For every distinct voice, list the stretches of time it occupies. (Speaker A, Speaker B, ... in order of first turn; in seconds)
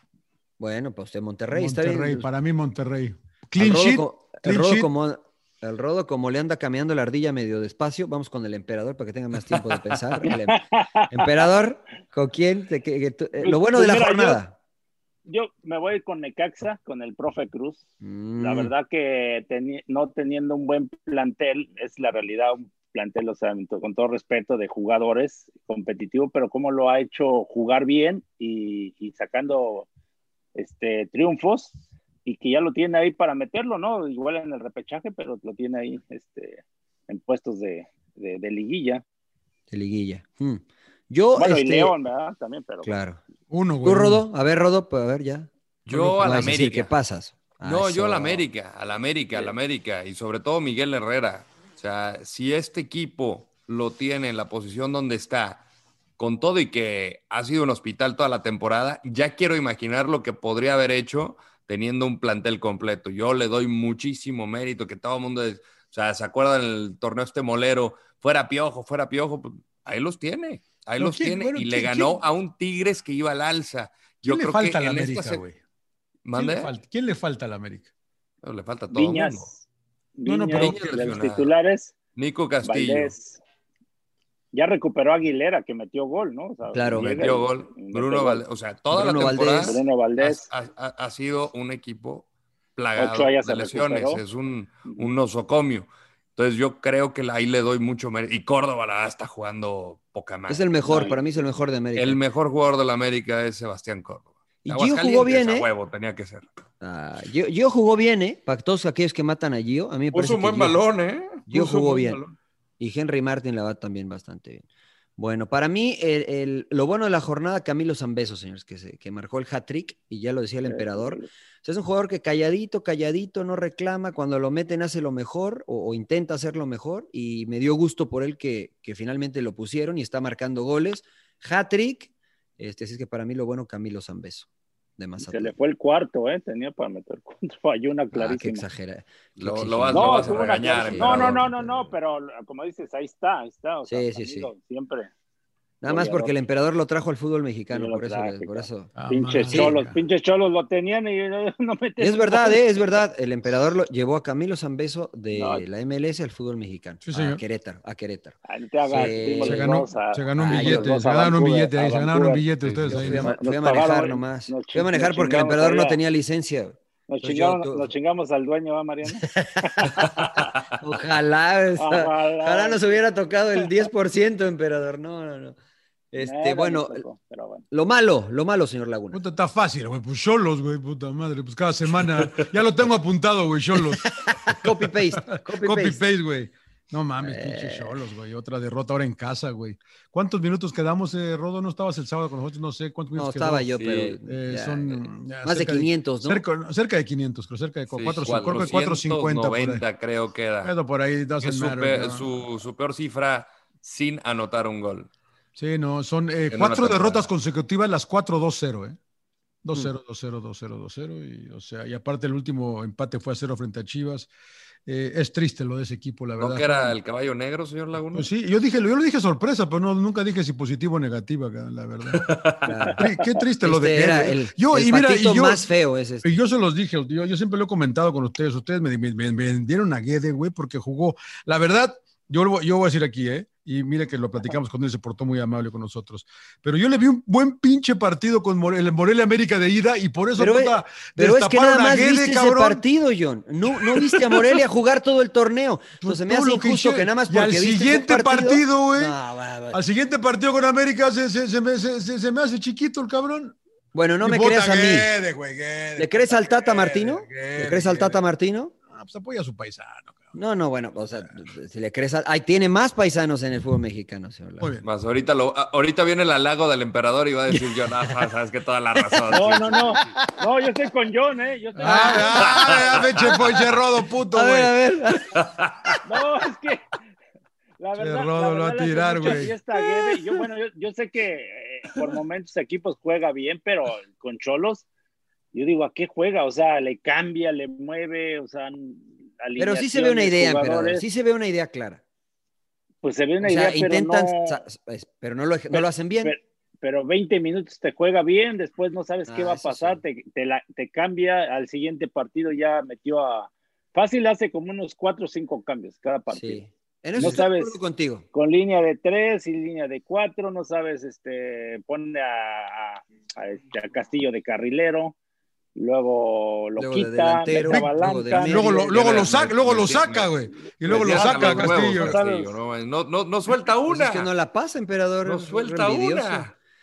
Speaker A: 0.6-2.3, 3.5-14.6, 18.0-18.7, 39.7-41.9, 42.8-43.2, 43.8-45.5, 46.2-48.5, 86.7-87.2, 88.9-89.8, 100.5-102.2, 104.6-105.7, 106.8-110.8, 111.5-112.2, 112.8-114.7, 115.2-135.5, 138.1-141.9, 143.8-144.5, 145.8-148.9, 149.5-149.8, 152.0-159.7, 160.3-160.9, 162.9-167.9, 169.1-175.6, 176.1-177.0, 177.7-179.2, 184.1-186.0, 187.2-188.0, 193.1-196.4, 222.6-223.0, 223.6-226.2, 240.4-249.8, 253.9-255.1, 256.0-258.7, 260.3-264.7, 268.9-269.4, 270.0-270.3, 271.8-273.6, 274.3-275.4, 279.2-280.4, 289.6-292.0, 293.4-296.3, 299.3-300.0, 306.3-308.2, 316.8-319.5, 323.9-326.5
Speaker B: 1.5-4.9, 43.5-44.2, 45.9-46.5, 71.0-72.2, 74.2-75.6, 76.3-77.9, 80.2-80.9, 148.9-150.0, 157.0-157.4, 159.4-163.3, 179.1-193.7, 194.2-199.8, 200.6-202.3, 205.6-209.0, 209.6-214.3, 214.8-216.9, 218.1-222.2, 223.0-225.6, 226.2-242.8, 243.8-244.4, 246.0-249.2, 249.7-253.6, 254.2-258.2, 258.9-260.3, 264.6-264.9, 271.8-274.7, 278.0-279.5, 317.6-322.2
Speaker C: 10.2-11.4, 13.4-14.4, 15.2-17.8, 18.4-29.9, 30.5-31.7, 32.2-39.0, 41.4-43.0, 78.9-79.6, 80.2-81.9, 82.6-83.4, 84.5-88.4, 89.5-90.5, 93.0-94.2, 100.8-101.2, 120.6-121.3, 135.2-138.7, 139.9-145.1, 145.8-146.3, 147.7-152.8, 155.3-155.6, 158.5-162.4, 163.0-166.0, 167.1-170.5, 171.8-173.0, 176.2-177.6, 269.3-272.8, 276.0-276.9, 277.8-284.9, 285.5-291.0, 293.0-294.6, 295.7-306.6, 307.1-307.8, 308.3-315.1, 315.7-319.0, 320.9-322.5
Speaker D: 45.9-46.9, 47.6-55.6, 56.2-75.4, 76.2-76.7, 78.4-79.5, 80.5-81.5, 82.2-83.1, 86.9-100.8, 102.0-106.5, 110.1-112.3, 139.4-141.5, 162.6-163.1, 193.8-194.1, 197.9-200.7, 201.4-205.1, 206.5-207.3, 216.4-218.3, 222.1-222.7, 264.8-270.1, 272.4-273.6, 275.3-276.0, 318.9-324.3, 325.2-326.5